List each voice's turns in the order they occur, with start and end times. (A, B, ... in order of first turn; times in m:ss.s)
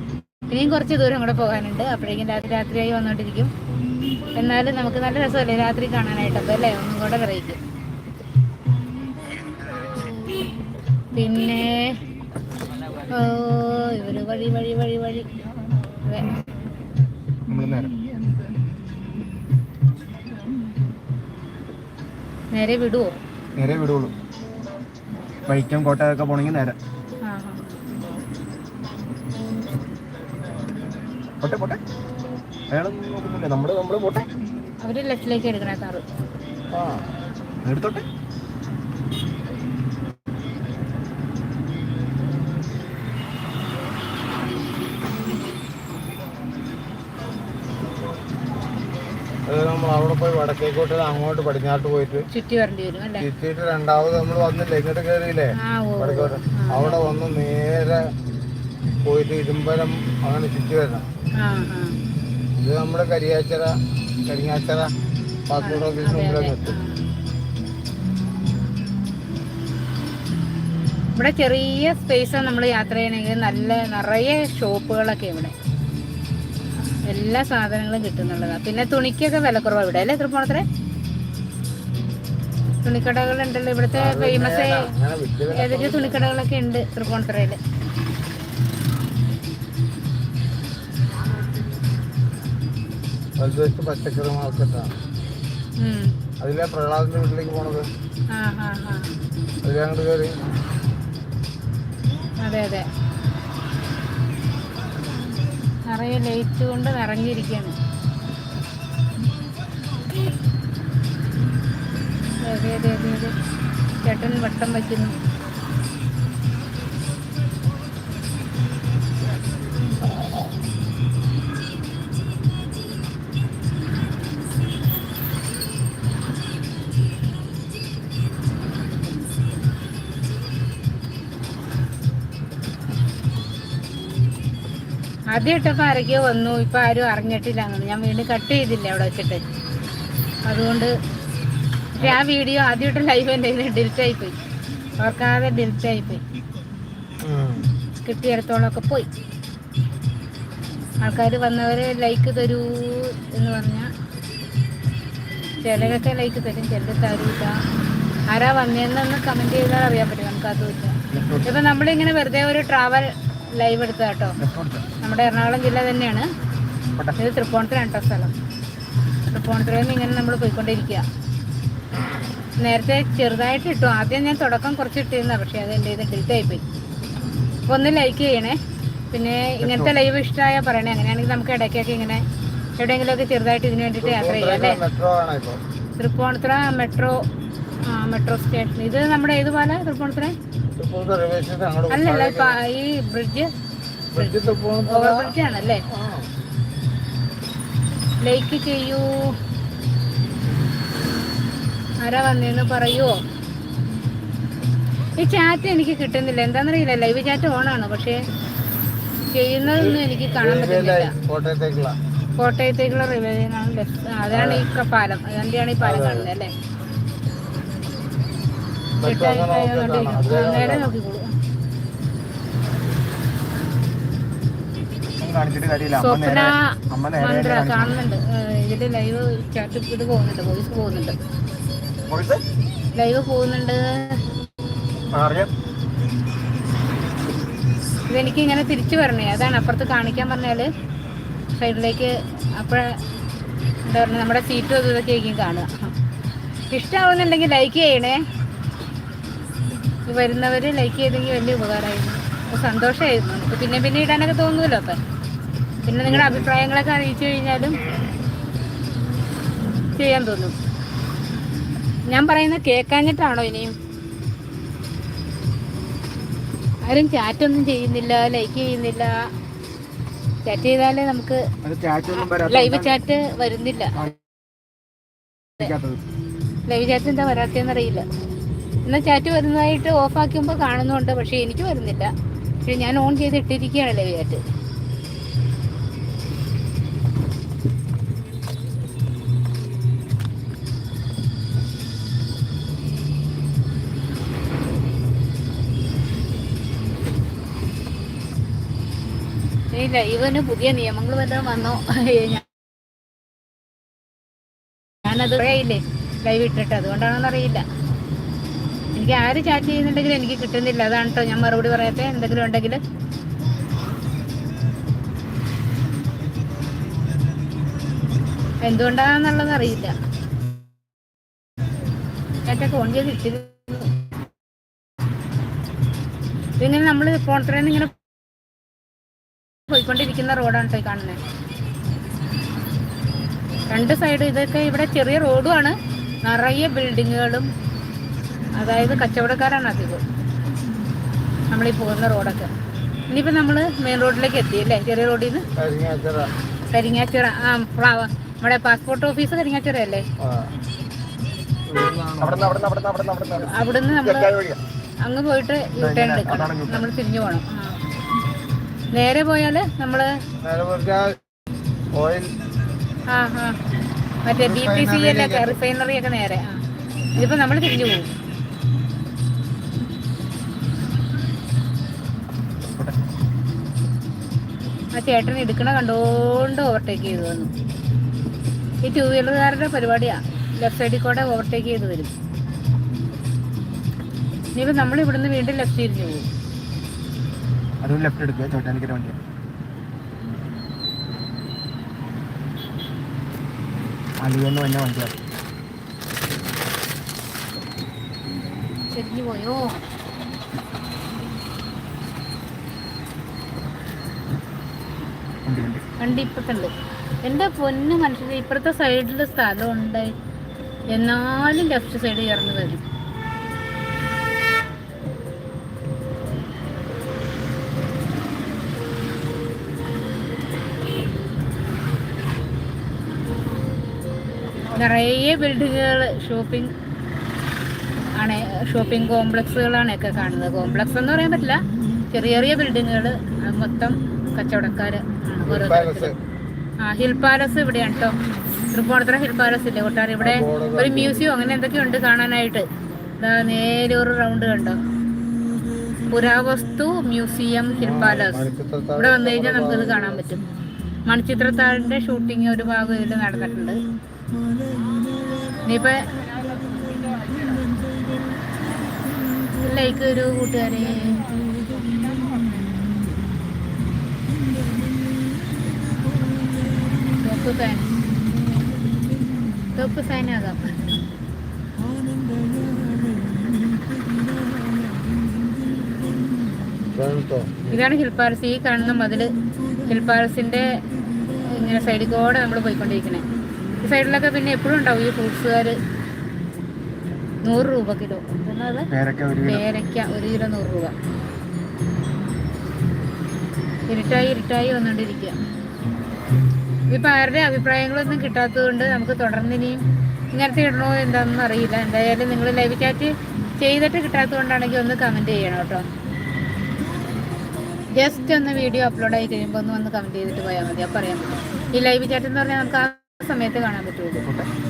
0:00.5-0:03.5 A
0:04.4-0:07.6 A
0:11.1-0:12.0 A
0:13.1-0:15.3 A
0:17.5-0:17.9 B
0:22.5-0:23.1 A
0:23.6-0:24.1 B
0:25.5-0:26.8 B
0:27.2-0:27.8 A
0:31.4-0:31.8 B
0:32.7-0:34.3 B
0:34.8-0:36.0 A
0:36.7-0:37.0 C
0:37.6-0:38.0 B
0:49.5-0:52.2 C
0:52.3-0:53.3 A
0:53.2-0:58.1 C
0:55.6-0:57.2 A
0:59.0-1:01.0 C
1:01.4-1:02.0 A
1:02.6-1:04.9 C
1:05.5-1:06.8 C
1:05.6-1:07.0 A
1:11.2-1:15.5 A
1:17.0-1:20.6 A
1:22.8-1:24.9 A
1:23.9-1:26.4 C
1:25.5-1:27.6 A
1:33.4-1:34.9 C
1:35.8-1:36.1 A
1:36.4-1:37.9 C
1:38.3-1:39.1 A
1:39.6-1:40.4 C
1:42.4-1:42.8 A
1:45.9-1:47.8 A
1:52.4-1:53.3 A
1:54.0-1:55.2 A
2:15.3-2:19.4 A
2:20.4-2:20.9 A
2:22.0-2:24.4 A
2:25.0-2:26.2 A
2:27.2-2:27.7 C
2:28.0-2:29.1 A
2:31.0-2:33.9 A
2:35.6-2:37.5 A
2:38.3-2:44.4 A
2:41.1-2:41.5 B
2:44.4-2:44.8 B
2:45.0-2:46.3 A
2:47.2-2:48.3 A
2:49.3-2:51.0 A
2:52.6-2:56.6 A
2:57.7-2:58.6 A
2:59.1-3:02.2 A
2:59.6-2:59.9 B
3:02.8-3:04.8 A
3:04.0-3:05.6 C
3:06.0-3:07.2 A
3:07.9-3:10.3 A
3:10.8-3:12.6 C
3:11.9-3:13.5 A
3:14.1-3:15.3 C
3:14.1-3:15.8 A
3:15.9-3:16.3 C
3:18.2-3:19.3 A
3:22.0-3:23.2 A
3:25.2-3:28.2 A
3:29.3-3:31.1 A
3:29.7-3:32.0 C
3:32.4-3:36.5 A
3:34.3-3:34.7 C
3:35.8-3:36.3 C
3:39.0-3:40.9 C
3:39.0-3:41.3 A
3:45.2-3:48.0 B
3:46.0-3:51.2 A
3:52.1-3:52.4 B
3:52.9-3:54.2 A
3:55.1-3:55.5 B
3:58.1-4:00.7 A
4:01.6-4:02.9 A
4:03.9-4:05.9 A
4:06.7-4:08.2 A
4:10.1-4:15.0 A
4:15.8-4:17.8 A
4:16.0-4:16.5 B
4:20.0-4:20.5 A
4:22.1-4:23.7 A
4:26.8-4:29.2 A
4:30.4-4:31.4 A
4:31.6-4:33.0 B
4:32.3-4:34.0 A
4:35.6-4:36.0 B
4:36.7-4:38.0 A
4:38.8-4:42.1 A
4:42.6-4:44.4 A
4:59.7-5:02.4 A
5:05.0-5:07.6 A
5:08.9-5:12.8 A
5:18.6-5:19.9 A
5:22.4-5:23.9 A
5:26.6-5:27.9 A
5:29.7-5:31.2 A
5:33.7-5:37.5 A
5:38.6-5:40.0 A
5:41.5-5:42.5 A
5:43.1-5:45.4 A
5:45.6-5:46.3 C
5:46.7-5:50.0 A
5:50.2-5:50.5 C
5:51.7-5:52.6 C
5:52.2-5:54.6 B
5:53.4-5:54.3 A
5:55.0-5:57.8 A
5:55.8-5:56.9 B
5:58.9-6:00.1 A
6:00.4-6:01.2 C
6:01.9-6:02.3 C
6:03.1-6:03.6 A
6:04.2-6:06.6 A
6:04.4-6:05.6 C
6:07.1-6:08.1 A
6:14.9-6:17.5 A
6:18.8-6:22.1 A
6:24.6-6:26.3 A
6:27.8-6:29.2 B
6:34.2-6:35.2 B
6:38.9-6:39.8 A
6:45.4-6:45.8 B
6:46.0-6:46.7 A
6:47.2-6:50.1 A
6:50.9-6:52.8 A
7:04.7-7:06.7 A
7:08.2-7:16.1 A
7:15.4-7:16.1 C
7:16.8-7:18.2 A
7:18.7-7:22.6 A
7:20.2-7:21.2 C
7:23.2-7:24.8 A
7:26.1-7:28.4 A
7:27.8-7:30.2 C
7:29.0-7:30.4 A
7:31.1-7:33.8 A
7:35.6-7:37.5 A
7:39.6-7:41.4 A
7:47.2-7:47.9 A
7:49.7-7:50.6 A
7:56.9-7:57.8 C
7:57.7-7:59.3 A
7:59.8-8:00.8 A
8:01.5-8:03.2 A
8:03.8-8:05.8 A
8:07.4-8:08.9 A
8:08.9-8:09.6 B
8:09.4-8:10.9 A
8:13.9-8:15.4 A
8:16.9-8:25.8 A
8:27.9-8:34.2 A
8:34.2-8:34.5 B